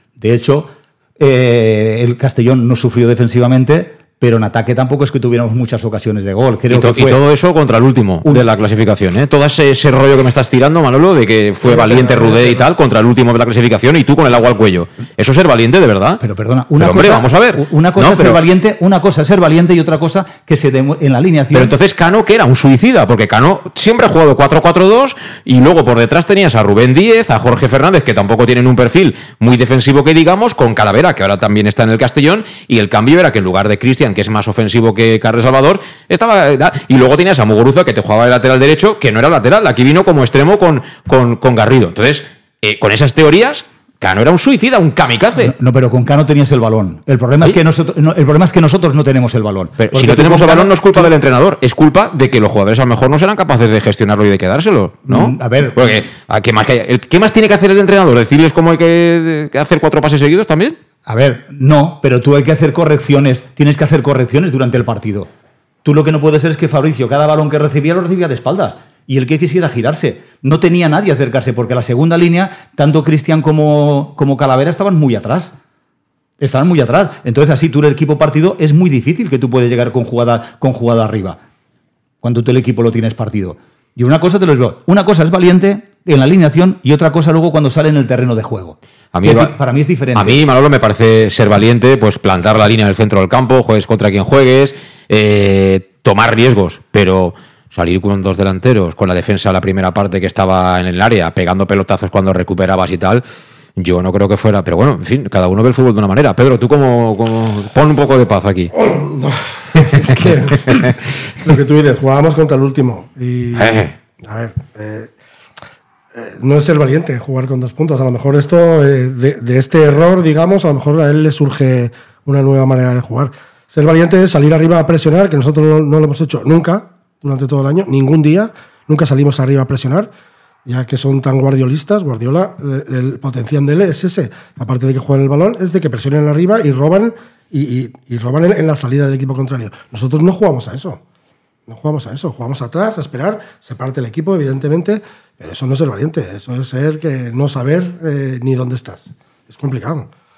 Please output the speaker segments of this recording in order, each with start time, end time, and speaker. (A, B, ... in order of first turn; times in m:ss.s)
0:00.2-0:07.2 A
0:06.7-0:16.2 B
0:11.8-0:12.6 C
0:16.2-0:21.8 A
0:16.8-0:18.4 B
0:21.5-0:45.5 B
0:45.4-0:51.1 A
0:49.8-1:00.8 B
0:55.1-0:56.0 A
1:01.0-1:05.3 A
1:05.8-1:15.5 A
1:16.4-1:21.4 A
1:22.2-1:30.4 A
1:29.1-1:29.5 B
1:30.1-1:43.2 B
1:43.8-1:48.7 B
1:48.7-1:50.9 C
1:49.9-1:50.8 B
1:51.4-1:55.1 C
1:53.6-1:53.9 B
1:56.1-2:10.1 C
2:10.6-2:21.0 C
2:21.7-2:30.1 C